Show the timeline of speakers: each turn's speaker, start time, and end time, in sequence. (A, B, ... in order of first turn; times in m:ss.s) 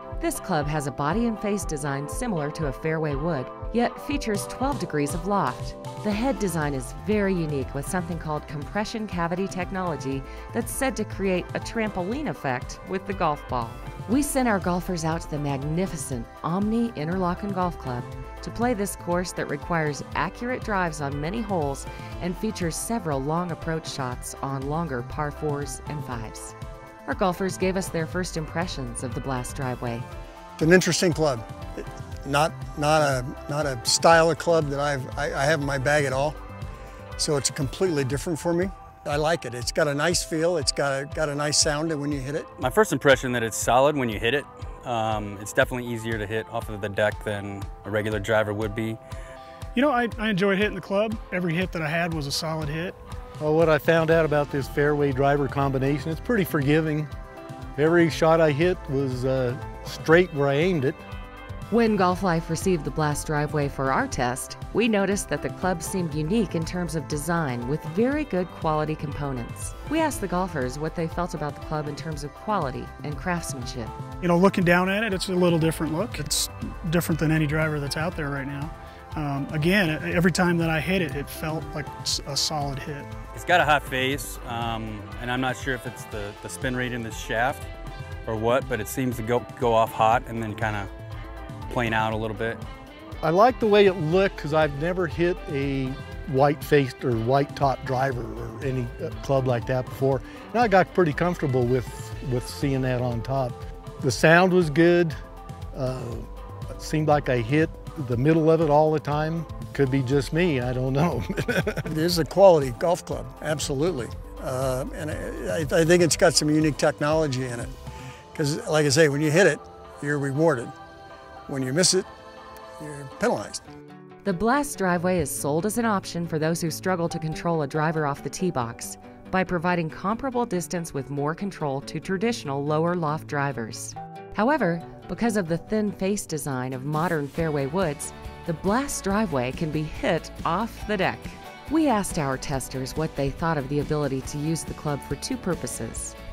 0:00.2-0:26.5 A
0:27.0-0:30.0 A
0:30.6-0:36.4 B
0:37.2-0:42.5 B
0:42.6-0:49.0 C
0:49.7-0:53.0 D
0:53.4-0:57.1 E
0:57.8-1:01.0 E
1:01.7-1:14.0 A
1:14.2-1:23.1 D
1:23.3-1:27.7 C
1:28.2-1:30.9 C
1:31.7-1:32.6 C
1:33.2-1:45.1 E
1:45.7-1:51.9 E
1:51.9-1:57.7 B
1:58.3-2:00.7 B
2:01.5-2:02.0 B
2:02.8-2:03.6 B
2:04.2-2:26.2 A